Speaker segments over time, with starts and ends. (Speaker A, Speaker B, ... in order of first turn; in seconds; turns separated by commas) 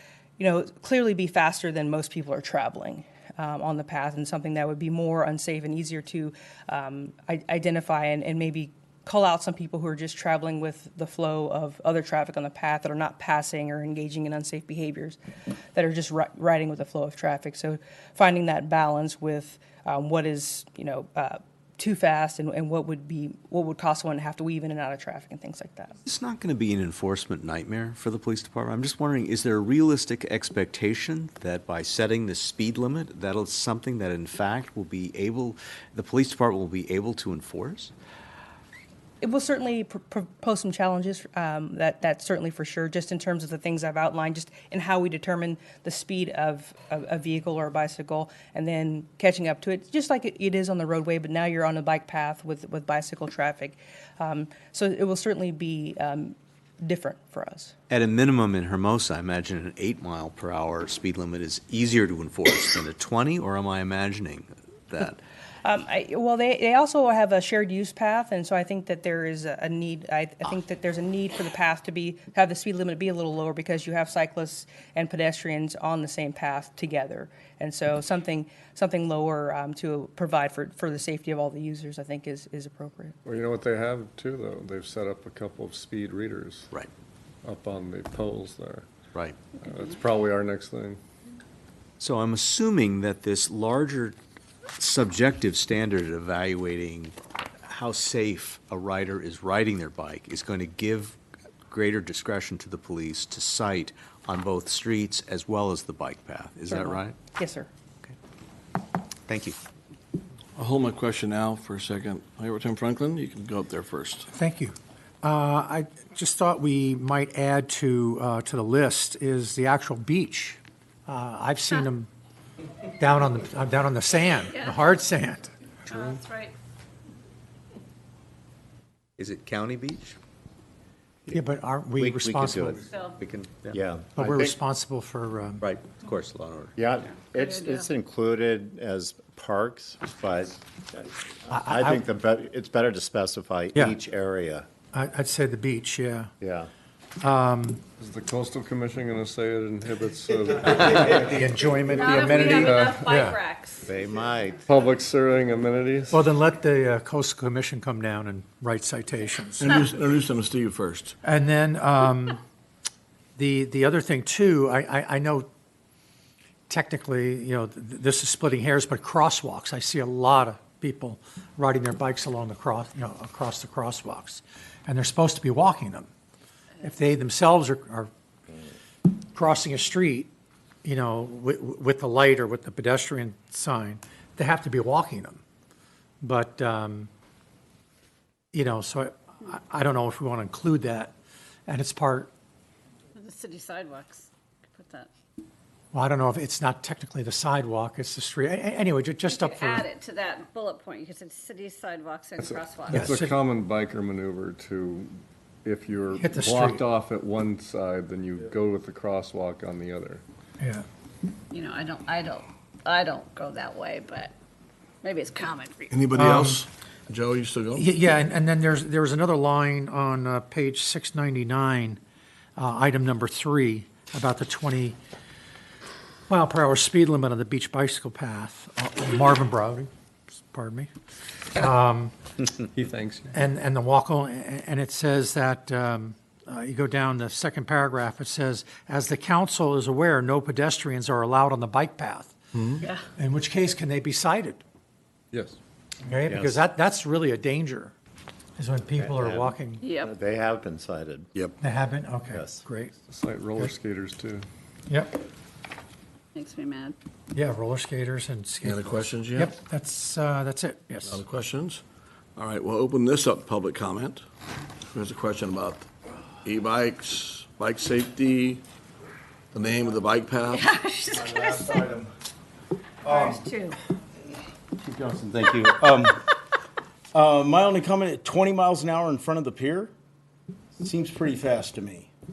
Speaker A: 0.4-15.2, Speaker A: 15.7-26.0, Speaker B: 26.1-37.9, Speaker A: 39.2-57.7, Speaker B: 57.9-65.2, Speaker A: 65.6-83.2, Speaker C: 83.2-86.7, Speaker C: 87.4-88.9, Speaker C: 89.5-91.0, Speaker B: 92.0-94.1, Speaker B: 94.8-97.1, Speaker B: 97.7-101.2, Speaker B: 101.7-107.1, Speaker A: 106.7-107.7, Speaker B: 109.3-109.5, Speaker D: 110.5-114.3, Speaker E: 114.3-122.1, Speaker E: 123.0-125.5, Speaker F: 124.5-124.9, Speaker F: 125.9-126.5, Speaker B: 129.2-130.2, Speaker E: 131.3-132.8, Speaker G: 131.9-132.8, Speaker F: 132.9-133.2, Speaker B: 133.2-133.8, Speaker G: 133.7-134.5, Speaker E: 134.1-135.6, Speaker B: 135.6-136.7, Speaker G: 136.8-144.7, Speaker F: 137.3-137.9, Speaker E: 141.5-142.0, Speaker E: 143.7-144.0, Speaker E: 144.9-146.3, Speaker G: 146.4-146.7, Speaker E: 147.2-147.8, Speaker C: 148.0-151.3, Speaker E: 151.1-153.4, Speaker F: 151.9-153.9, Speaker C: 152.3-153.0, Speaker G: 153.8-154.6, Speaker C: 154.7-156.2, Speaker E: 156.1-159.7, Speaker D: 159.6-161.1, Speaker E: 161.2-162.4, Speaker E: 163.3-165.5, Speaker E: 166.7-176.1, Speaker E: 176.8-178.1, Speaker E: 179.3-180.3, Speaker E: 180.8-185.4, Speaker E: 186.2-187.1, Speaker E: 188.5-191.1, Speaker E: 191.7-192.3, Speaker F: 193.1-195.1, Speaker E: 195.9-199.8, Speaker F: 199.2-203.1, Speaker C: 202.4-210.2, Speaker E: 202.9-203.3, Speaker E: 206.2-206.8, Speaker F: 211.5-214.3, Speaker F: 215.0-215.9, Speaker D: 215.9-217.8, Speaker E: 216.2-216.6, Speaker E: 217.8-222.0, Speaker E: 222.6-225.0, Speaker E: 226.3-229.9, Speaker E: 230.4-230.9, Speaker E: 231.6-232.1, Speaker C: 232.7-233.3, Speaker E: 233.3-242.3, Speaker E: 243.2-244.6, Speaker E: 246.1-247.9, Speaker G: 246.3-246.6, Speaker E: 248.6-249.8, Speaker G: 249.0-251.3, Speaker F: 249.8-250.1, Speaker E: 251.6-252.9, Speaker G: 252.3-252.6, Speaker C: 253.1-254.5, Speaker E: 254.9-255.2, Speaker F: 256.3-256.9, Speaker E: 257.3-261.2, Speaker D: 258.6-259.5, Speaker D: 261.1-261.8, Speaker D: 262.4-264.2, Speaker D: 264.9-265.9, Speaker D: 266.4-268.6, Speaker D: 269.5-270.7, Speaker F: 270.5-271.8, Speaker H: 271.1-272.1, Speaker H: 273.0-273.4, Speaker F: 273.1-273.8, Speaker H: 274.7-276.2, Speaker H: 277.1-279.9, Speaker H: 280.8-282.1